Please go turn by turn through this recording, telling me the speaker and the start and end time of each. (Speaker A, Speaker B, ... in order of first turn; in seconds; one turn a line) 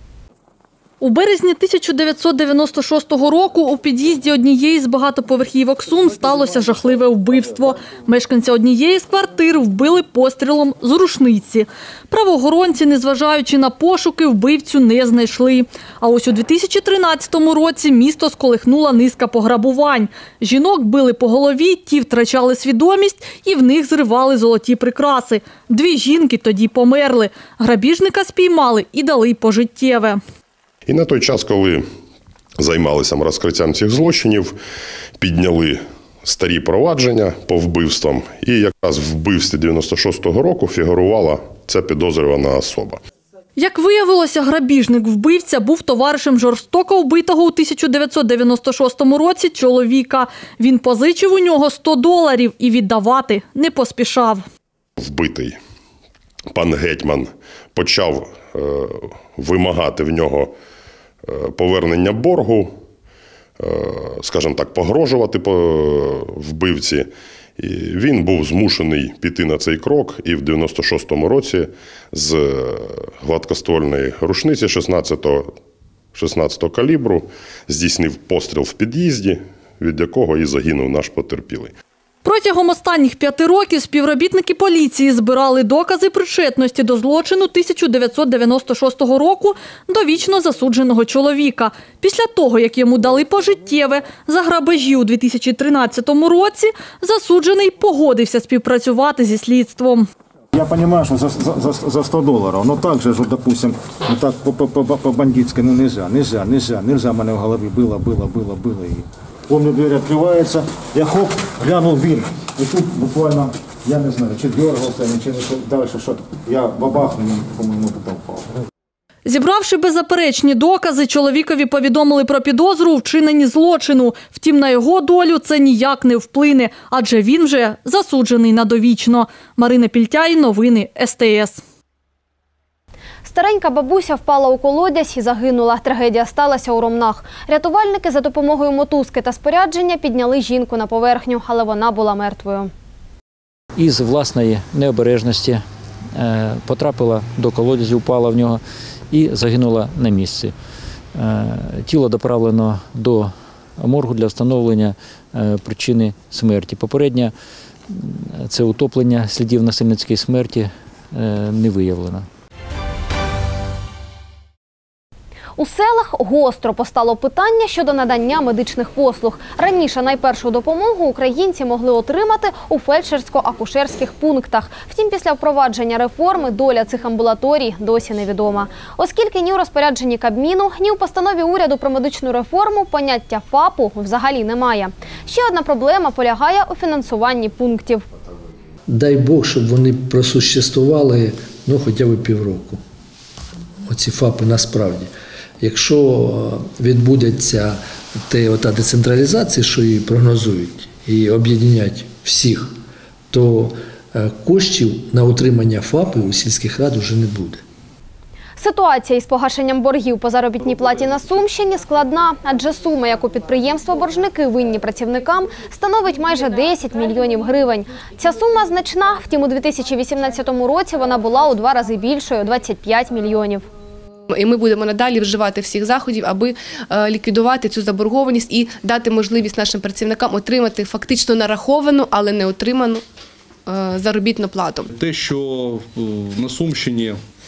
Speaker A: 1.0-30.2
Speaker B: 30.9-31.9
Speaker B: 32.6-34.6
Speaker B: 35.2-43.0
Speaker A: 43.6-54.4
Speaker B: 55.0-55.6
Speaker B: 56.5-60.5
Speaker B: 61.3-62.7
Speaker B: 63.6-75.5
Speaker B: 76.1-81.7
Speaker A: 82.2-100.1
Speaker C: 100.5-118.5
Speaker A: 119.3-131.6
Speaker D: 133.2-142.7
Speaker E: 143.8-145.6
Speaker E: 146.2-150.5
Speaker E: 151.2-157.3
Speaker E: 157.9-162.3
Speaker D: 165.6-188.1
Speaker F: 188.9-192.8
Speaker F: 193.9-195.1
Speaker F: 195.6-202.7
Speaker F: 203.3-207.6
Speaker D: 208.6-223.7
Speaker G: 224.3-233.0
Speaker G: 233.7-234.9
Speaker H: 234.9-237.2